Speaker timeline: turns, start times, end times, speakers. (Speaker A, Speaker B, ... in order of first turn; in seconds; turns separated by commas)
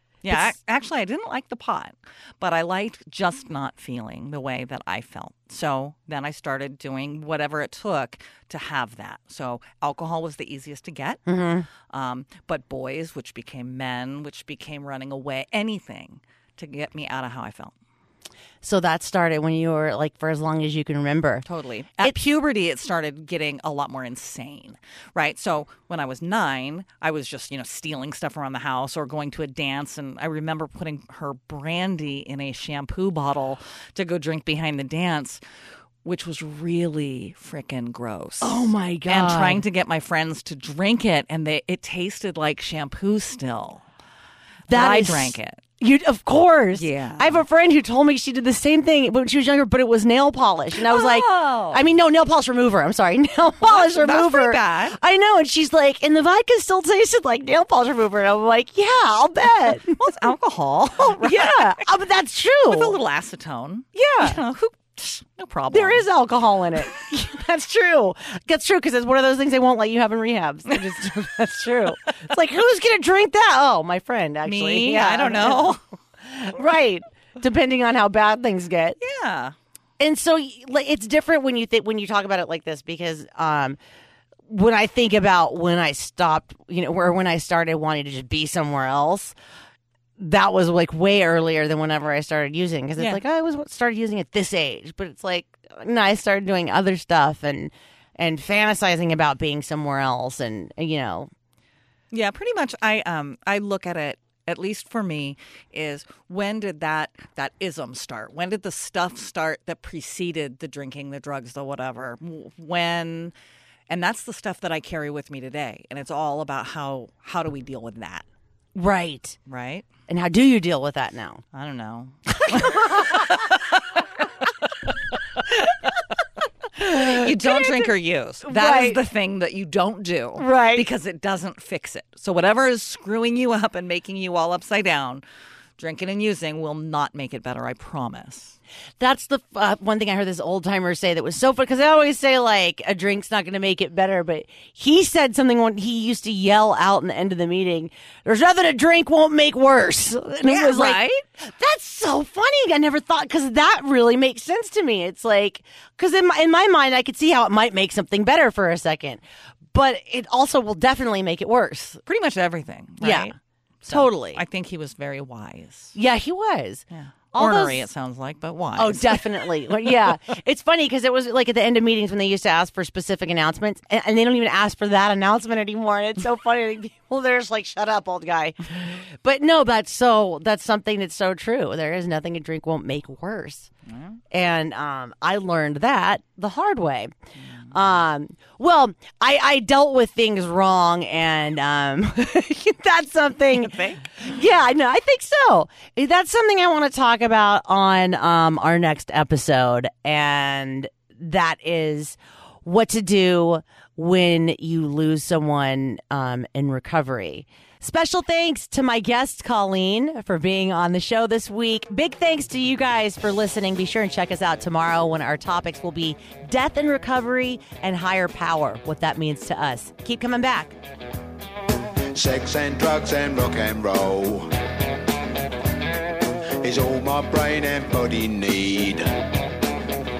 Speaker A: 0.2-11.2, Speaker B: 0.3-0.5, Speaker B: 11.3-11.7, Speaker A: 11.9-17.7, Speaker B: 18.6-21.5, Speaker A: 21.4-35.4, Speaker A: 36.0-43.9, Speaker B: 38.4-39.6, Speaker B: 44.7-60.0, Speaker A: 44.7-45.6, Speaker A: 46.7-47.4, Speaker A: 50.8-51.8, Speaker A: 53.6-55.0, Speaker A: 59.8-61.9, Speaker B: 61.2-63.0, Speaker A: 62.7-66.1, Speaker B: 64.1-64.4, Speaker B: 65.7-79.0, Speaker A: 74.4-75.8, Speaker A: 79.0-79.5, Speaker B: 80.0-83.8, Speaker B: 84.5-89.3, Speaker B: 90.2-101.3, Speaker A: 102.1-113.3, Speaker A: 113.9-118.2, Speaker B: 118.8-119.4, Speaker A: 119.5-119.8, Speaker B: 120.1-121.4, Speaker A: 121.5-123.8, Speaker B: 122.5-123.3, Speaker A: 126.8-135.2, Speaker B: 126.8-127.8, Speaker B: 128.5-129.0, Speaker B: 130.4-130.9, Speaker A: 135.8-138.6, Speaker B: 139.0-159.2, Speaker A: 150.4-151.2, Speaker B: 159.7-162.0, Speaker A: 162.1-166.0, Speaker B: 163.0-163.3, Speaker B: 163.9-164.4, Speaker B: 165.9-167.9, Speaker A: 166.9-169.5, Speaker B: 168.8-183.7, Speaker A: 183.9-184.2, Speaker B: 184.3-187.1, Speaker B: 187.7-220.8, Speaker A: 193.6-194.0, Speaker C: 222.1-224.5, Speaker C: 226.6-229.2